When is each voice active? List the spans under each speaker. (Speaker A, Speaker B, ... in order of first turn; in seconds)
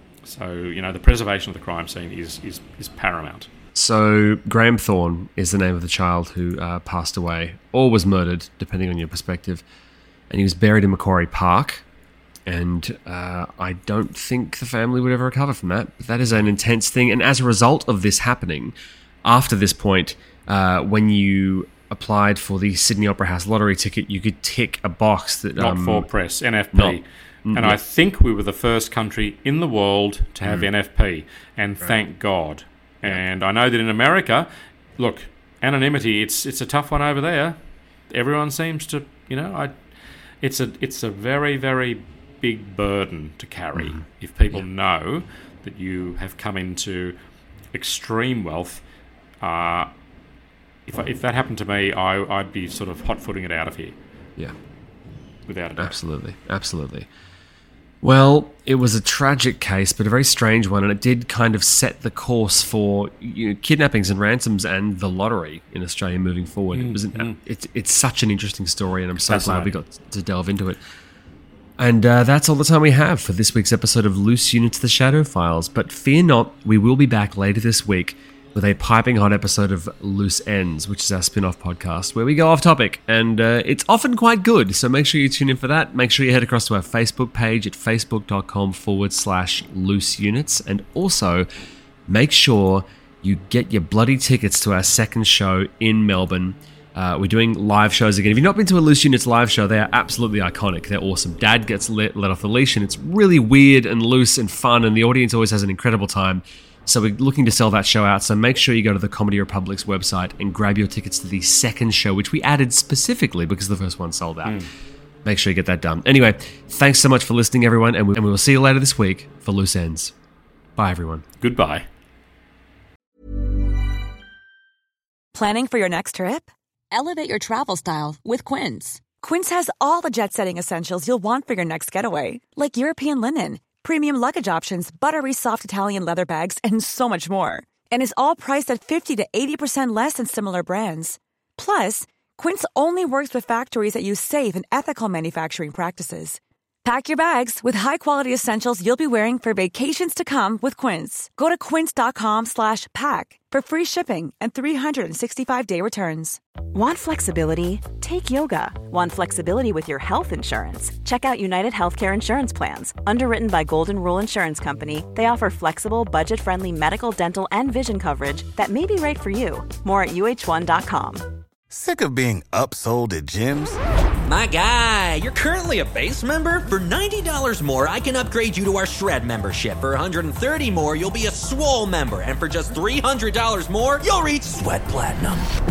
Speaker A: 0.2-3.5, 25.6-37.6, 38.1-39.9, 40.4-47.2, 47.7-48.9, 49.4-49.9, 50.9-54.0, 55.5-56.0, 66.7-67.4, 69.2-69.7, 114.4-114.7, 121.4-121.9
Speaker B: 3.8-9.6, 10.3-11.8, 12.5-26.1, 26.7-27.8, 55.8-57.1, 58.0-70.8, 71.8-91.5, 92.1-114.6, 115.2-120.1, 120.8-121.2
Speaker C: 125.3-156.4
Speaker D: 156.7-171.2
Speaker E: 171.7-173.8
Speaker F: 174.3-185.4